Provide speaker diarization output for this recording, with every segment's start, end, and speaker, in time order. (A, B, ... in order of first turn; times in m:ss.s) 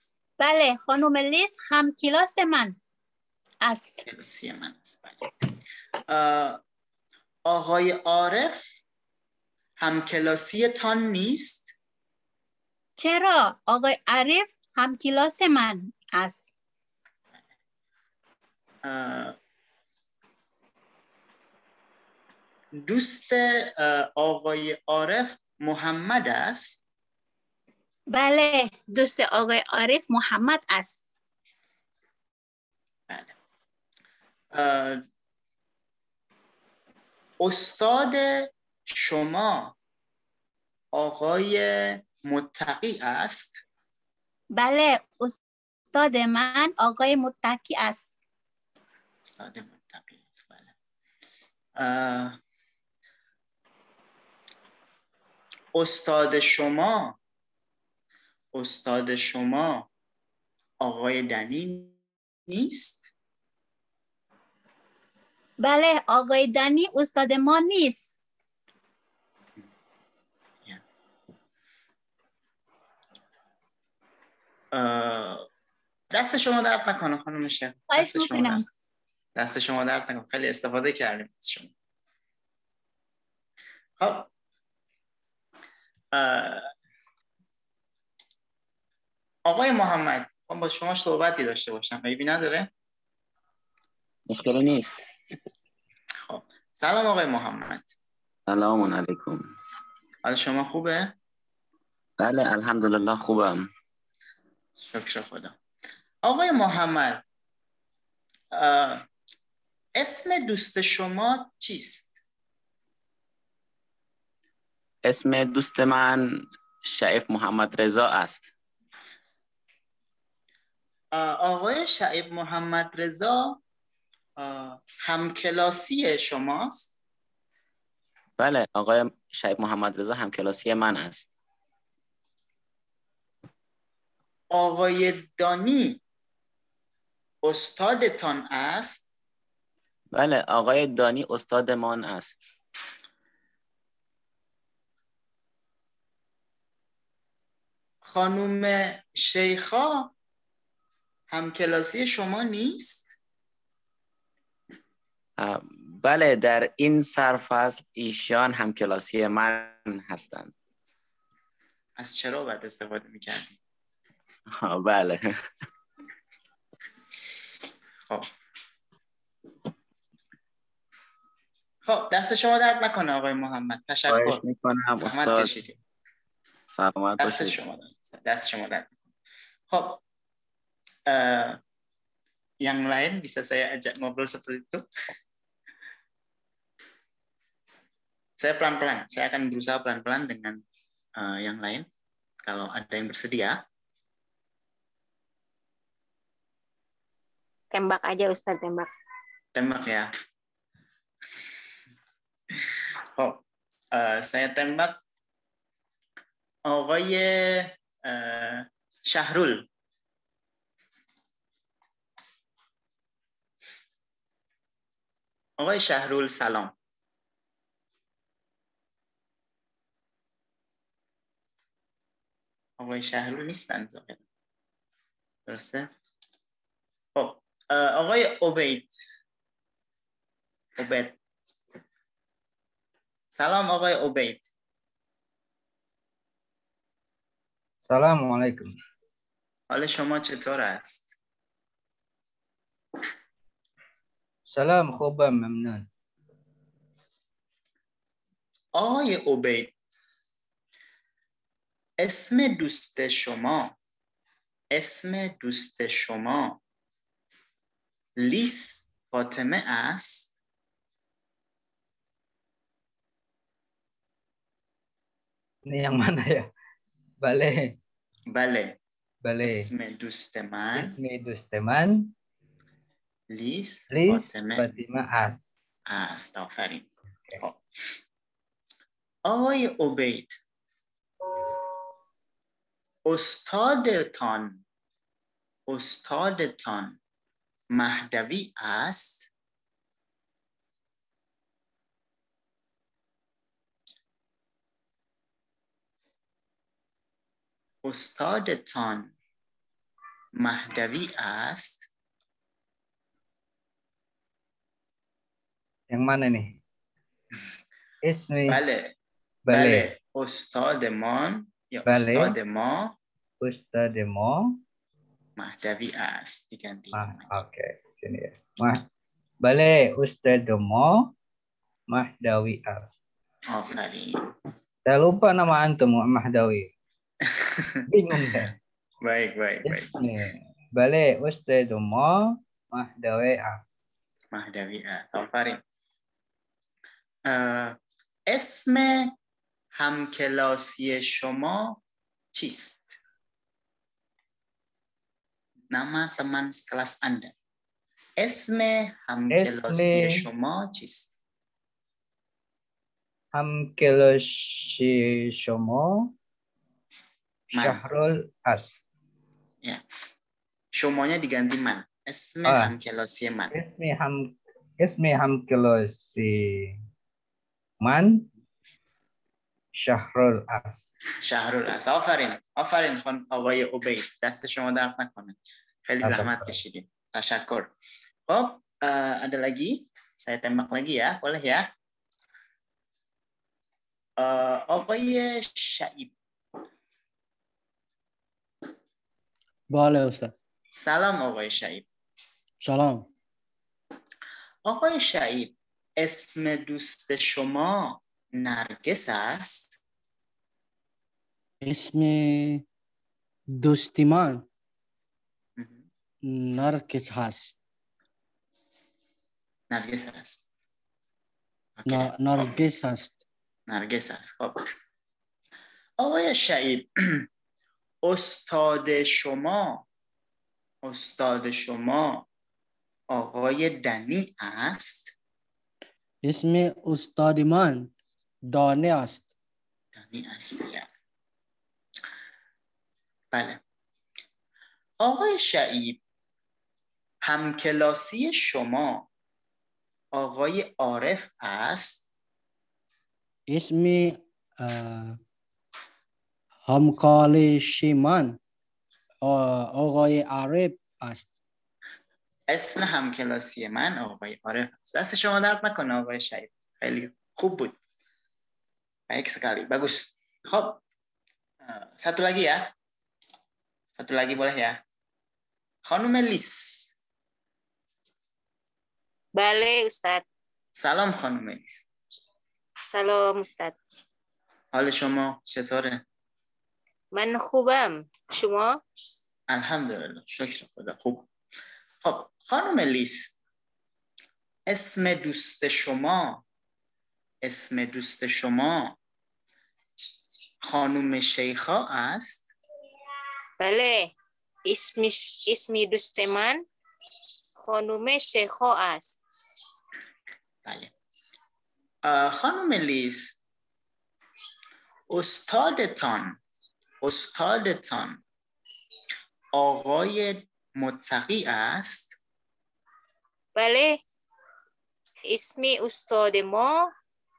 0:00.4-0:02.8 A
0:03.6-0:04.0 A
0:04.0-0:05.2 B
0:06.1-0:06.6 B
0:07.5-0:08.5 B
0:09.8-0:11.7 B
0:13.0-0:16.5 A
0:18.8-0:19.4 B
0:22.8-0:26.8 B
0:28.1-0:31.0 A
0:33.1-0:33.4 B
0:34.5-0:35.0 B
0:37.4-0:39.7 B
0:40.9-0:43.6 B
0:44.5-0:45.4 A
0:45.9-0:48.1 A
0:49.2-0:50.7 B
0:51.8-0:52.4 B
0:55.7-0:57.2 B
0:58.5-0:59.8 B
1:00.8-1:01.9 B
1:02.5-1:03.1 B
1:05.6-1:08.1 A
1:14.7-1:15.4 B
1:16.1-1:18.6 B
1:17.9-1:18.6 A
1:19.4-1:21.7 B
1:24.0-1:24.3 B
1:26.1-1:26.7 B
1:29.5-1:32.7 B
1:34.3-1:35.0 C
1:36.3-1:37.9 B
1:38.5-1:39.4 C
1:40.2-1:41.1 B
1:42.2-1:43.6 C
1:44.8-1:45.5 B
1:46.2-1:47.2 B
1:48.5-1:49.0 B
1:50.0-1:52.1 B
1:55.0-1:58.5 C
2:01.1-2:03.6 B
2:04.4-2:06.9 B
2:08.4-2:11.3 C
2:14.5-2:16.0 B
2:17.4-2:19.0 B
2:20.1-2:22.4 C
2:28.0-2:30.1 B
2:31.3-2:33.0 B
2:35.4-2:40.5 C
2:42.0-2:43.6 B
2:44.6-2:45.3 C
2:51.8-2:54.4 B
2:54.1-2:55.5 C
2:55.0-2:55.8 B
2:56.7-2:57.6 C
2:57.2-2:58.9 B
2:59.7-3:00.0 B
3:01.1-3:01.6 B
3:02.6-3:04.8 B
3:08.4-3:10.6 B
3:11.2-3:11.8 B
3:12.4-3:13.6 B
3:17.7-3:18.9 D
3:19.5-3:20.1 B
3:22.5-3:23.4 B
3:23.9-3:24.9 B
3:26.7-3:29.6 B
3:35.6-3:36.7 B
3:42.8-3:44.2 B
3:45.5-3:45.9 B
3:47.1-3:48.9 B
3:50.8-3:51.2 B
3:53.4-3:54.4 B
3:57.9-3:58.7 E
3:59.7-4:01.1 B
4:04.5-4:05.8 E
4:08.8-4:09.7 B
4:12.0-4:13.7 B
4:14.7-4:16.6 B
4:18.2-4:20.3 B
4:25.7-4:26.5 E
4:27.2-4:27.8 E
4:28.3-4:28.8 B
4:29.2-4:29.7 E
4:29.4-4:31.0 B
4:30.7-4:32.1 E
4:33.3-4:34.6 B
4:33.9-4:35.4 E
4:35.9-4:36.9 B
4:39.2-4:40.4 B
4:43.0-4:44.6 B
4:45.7-4:47.0 B
4:47.7-4:49.3 B
4:57.8-4:59.1 B
5:00.4-5:01.8 B
5:05.9-5:06.6 E
5:08.0-5:08.6 E
5:08.5-5:08.9 B
5:09.5-5:09.9 E
5:09.5-5:12.9 B
5:11.8-5:12.3 E
5:13.4-5:14.5 E
5:15.4-5:17.3 B
5:16.9-5:18.8 E
5:19.4-5:21.1 E
5:21.9-5:22.9 E
5:23.5-5:24.3 B
5:24.8-5:26.7 E
5:27.2-5:27.8 B
5:27.9-5:28.5 E
5:29.0-5:29.9 B
5:29.6-5:33.6 E
5:34.3-5:35.6 B
5:37.2-5:37.8 B
5:38.3-5:39.1 B
5:39.8-5:41.8 B
5:42.3-5:42.9 B
5:45.7-5:47.3 B
5:48.2-5:51.1 B
5:49.3-5:50.2 E
5:53.3-5:56.1 E
5:57.5-5:57.8 B
5:57.5-5:58.7 E
6:00.7-6:03.5 B
6:03.5-6:06.8 E
6:07.8-6:08.3 E
6:09.8-6:10.9 E
6:11.2-6:17.7 B
6:16.0-6:16.6 E
6:18.3-6:21.6 B
6:24.2-6:26.1 B
6:29.7-6:30.3 F
6:30.7-6:31.8 B
6:32.6-6:33.0 F
6:34.7-6:39.7 B
6:41.6-6:42.6 F
6:43.5-6:44.4 F
6:45.6-6:45.8 B
6:46.2-6:47.6 F
6:49.7-6:50.4 B
6:51.8-6:52.6 B
6:51.8-6:53.2 F
6:53.7-6:54.6 B
6:56.0-6:57.3 B
6:58.0-6:59.8 B
7:00.8-7:02.2 B
7:03.1-7:05.1 B
7:06.2-7:07.9 F
7:08.5-7:09.3 F
7:10.0-7:10.9 B
7:13.3-7:13.6 B
7:15.0-7:16.0 B
7:17.2-7:19.0 B
7:20.1-7:22.0 B
7:23.5-7:25.2 F
7:26.6-7:28.4 F
7:29.2-7:31.3 F
7:32.5-7:37.7 B
7:39.1-7:40.8 B
7:41.6-7:42.6 B
7:44.0-7:44.8 B
7:45.9-7:46.9 B
7:49.4-7:50.2 D
7:50.8-7:51.8 B
7:52.9-7:53.7 D
7:54.7-7:56.0 B
7:57.1-7:58.8 D
7:59.5-8:01.2 B
8:02.0-8:03.3 B
8:04.7-8:06.4 B
8:07.4-8:08.9 B
8:10.6-8:12.4 B
8:13.6-8:14.1 D
8:14.7-8:16.6 D
8:17.6-8:19.2 D
8:20.6-8:20.9 B
8:22.0-8:23.3 B
8:25.1-8:26.4 B
8:27.0-8:28.2 B
8:29.5-8:32.1 B
8:33.6-8:34.0 D
8:35.3-8:36.8 D